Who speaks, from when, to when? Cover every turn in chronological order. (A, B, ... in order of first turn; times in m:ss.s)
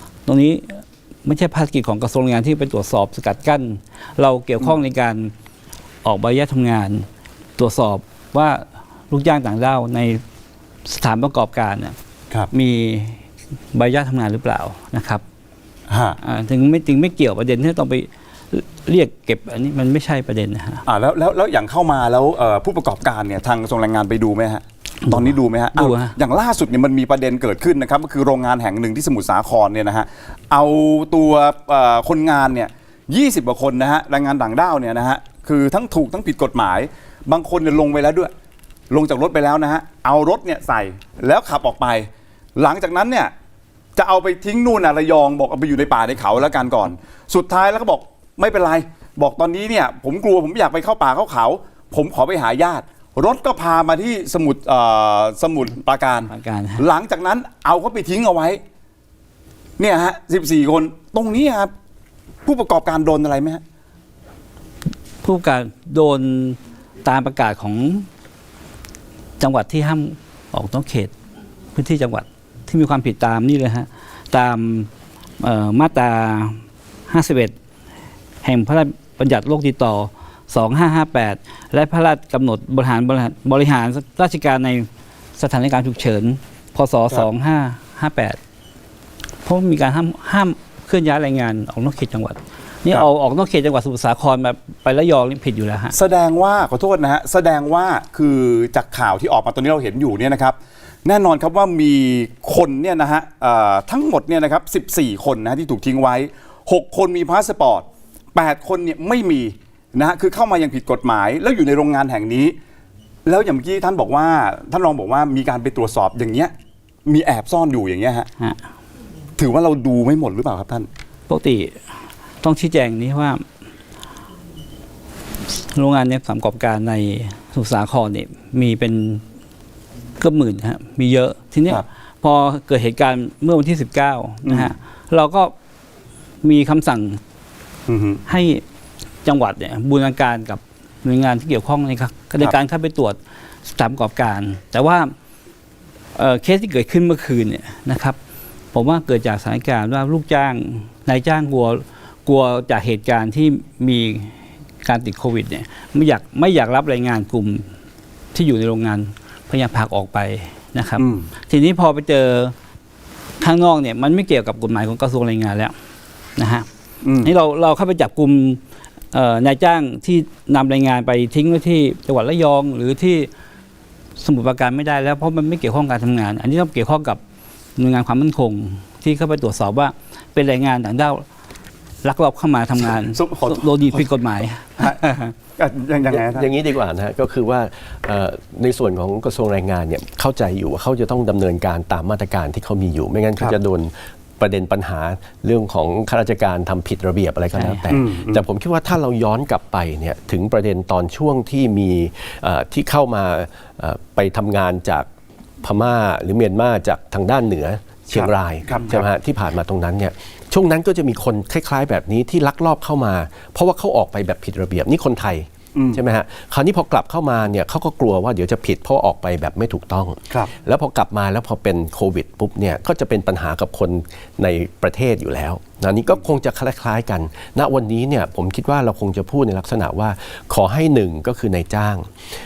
0:00.3-0:05.3 A
0:06.0-0:07.1 A
0:07.6-0:10.2 A
0:10.9-0:12.0 A
0:12.5-0:15.2 A
0:15.9-0:16.2 B
0:16.2-0:20.8 A
0:20.9-0:38.3 B
0:25.1-0:26.2 A
0:38.9-0:43.3 B
0:44.0-0:58.6 B
0:56.3-0:56.8 A
0:59.8-1:01.7 B
1:02.4-1:03.6 B
1:05.2-1:08.1 A
1:09.4-1:11.1 A
1:11.8-1:14.9 A
1:15.4-1:17.5 A
1:18.4-1:28.4 A
1:29.4-1:36.0 A
1:35.9-1:52.6 B
1:53.3-1:56.5 B
1:57.1-1:58.3 B
1:59.4-2:00.9 B
2:01.3-2:01.8 A
2:02.4-2:03.4 A
2:05.7-2:09.2 A
2:10.2-2:15.5 A
2:14.4-2:14.7 B
2:16.4-2:17.2 A
2:17.9-2:18.2 B
2:18.3-2:18.6 A
2:19.2-2:25.1 A
2:26.2-2:28.2 A
2:28.7-2:37.7 A
2:38.3-2:42.6 A
2:41.0-2:41.3 B
2:43.4-2:45.7 A
2:46.4-2:46.7 A
2:47.0-2:47.3 B
2:47.2-2:48.6 A
2:49.1-2:53.3 A
2:54.2-2:57.2 A
2:57.8-3:01.2 A
3:02.0-3:05.3 A
3:03.0-3:04.1 B
3:05.6-3:06.5 B
3:06.1-3:25.1 C
3:17.6-3:17.8 A
3:17.9-3:18.4 B
3:25.6-3:52.1 C
3:28.1-3:29.0 B
3:35.8-3:36.0 B